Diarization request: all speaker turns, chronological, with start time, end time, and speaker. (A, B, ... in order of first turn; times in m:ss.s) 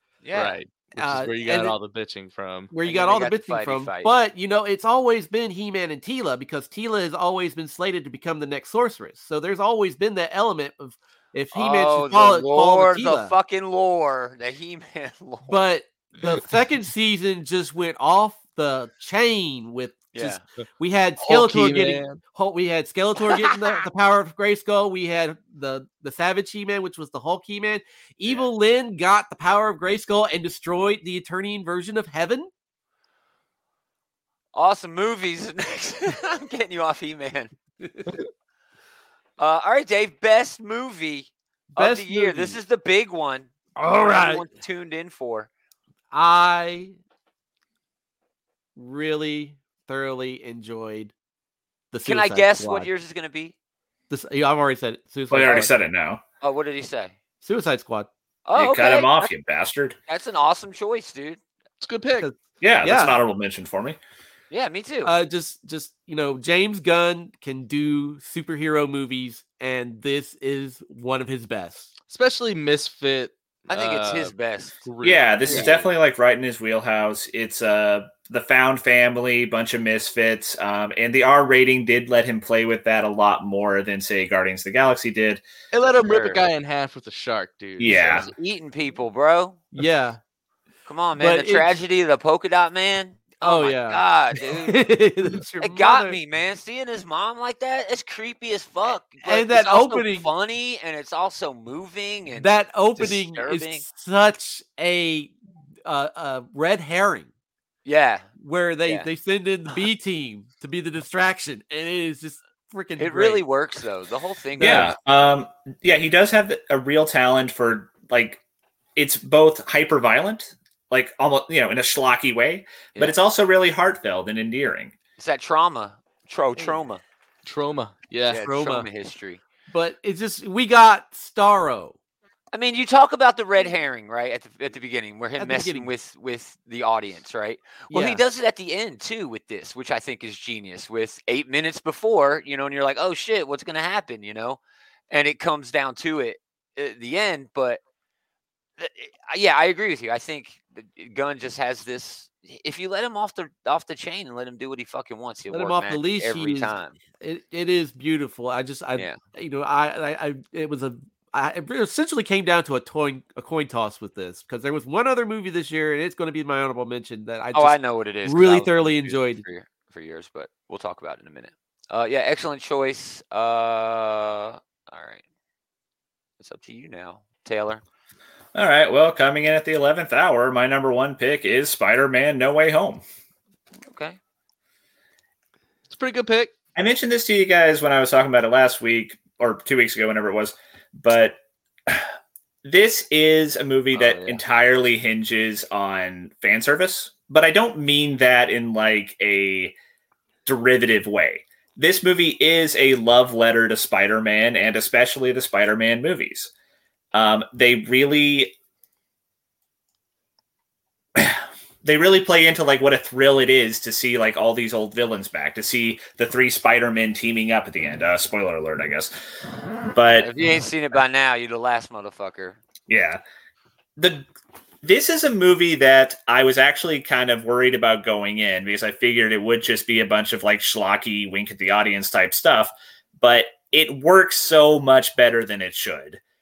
0:00.2-0:00.6 A
0:00.3-0:02.7 B
0:00.9-0:01.8 C
0:02.7-0:13.3 C
0:02.8-0:04.1 A
0:11.5-0:15.6 A
0:15.5-0:32.5 C
0:20.1-0:20.4 A
0:21.2-0:22.2 B
0:34.5-0:37.5 A
0:37.8-0:38.1 C
0:39.4-0:45.5 A
0:41.7-0:42.6 C
0:43.8-0:44.5 C
0:46.1-0:47.0 C
0:48.8-0:51.1 C
0:51.9-0:52.9 C
0:52.0-0:53.5 A
0:54.1-0:55.7 C
0:55.3-0:56.2 D
0:56.4-0:57.1 A
0:57.4-0:58.1 C
0:58.4-0:59.3 A
0:58.6-1:00.0 D
1:00.1-1:01.4 A
1:01.8-1:02.3 B
1:02.2-1:03.2 C
1:02.6-1:04.0 D
1:04.5-1:05.1 A
1:05.0-1:11.9 C
1:12.1-1:15.7 B
1:13.7-1:14.8 A
1:15.0-1:25.4 D
1:15.5-1:15.9 A
1:25.7-1:28.2 B
1:26.0-1:26.4 A
1:27.8-1:28.3 D
1:27.9-1:29.6 A
1:29.7-1:30.2 C
1:30.8-1:34.8 A
1:31.2-1:31.8 C
1:33.4-1:36.2 C
1:35.6-1:43.8 A
1:39.2-1:40.3 C
1:42.4-1:47.3 C
1:47.8-1:48.3 A
1:48.4-1:53.4 C
1:53.0-1:54.9 A
1:54.6-1:54.8 C
1:54.6-1:58.4 D
1:59.0-2:04.9 D
2:05.2-2:07.0 A
2:06.6-2:06.8 C
2:07.4-2:08.4 B
2:08.3-2:09.4 A
2:08.3-2:08.9 C
2:09.7-2:12.0 C
2:12.5-2:27.8 A
2:15.4-2:15.9 C
2:17.9-2:18.2 C
2:28.8-2:37.0 A
2:35.5-2:49.4 C
2:47.5-2:55.2 A
2:56.4-2:57.8 A
2:58.5-3:03.0 D
3:03.8-3:04.2 A
3:05.9-3:06.5 B
3:06.7-3:12.0 D
3:12.6-3:19.7 D
3:13.9-3:14.4 A
3:20.4-3:26.5 D
3:27.1-3:28.5 D
3:31.2-3:39.1 D
3:39.9-3:40.3 D
3:40.2-3:42.6 A
3:42.9-3:43.2 D
3:44.0-3:44.3 D
3:44.8-3:56.2 D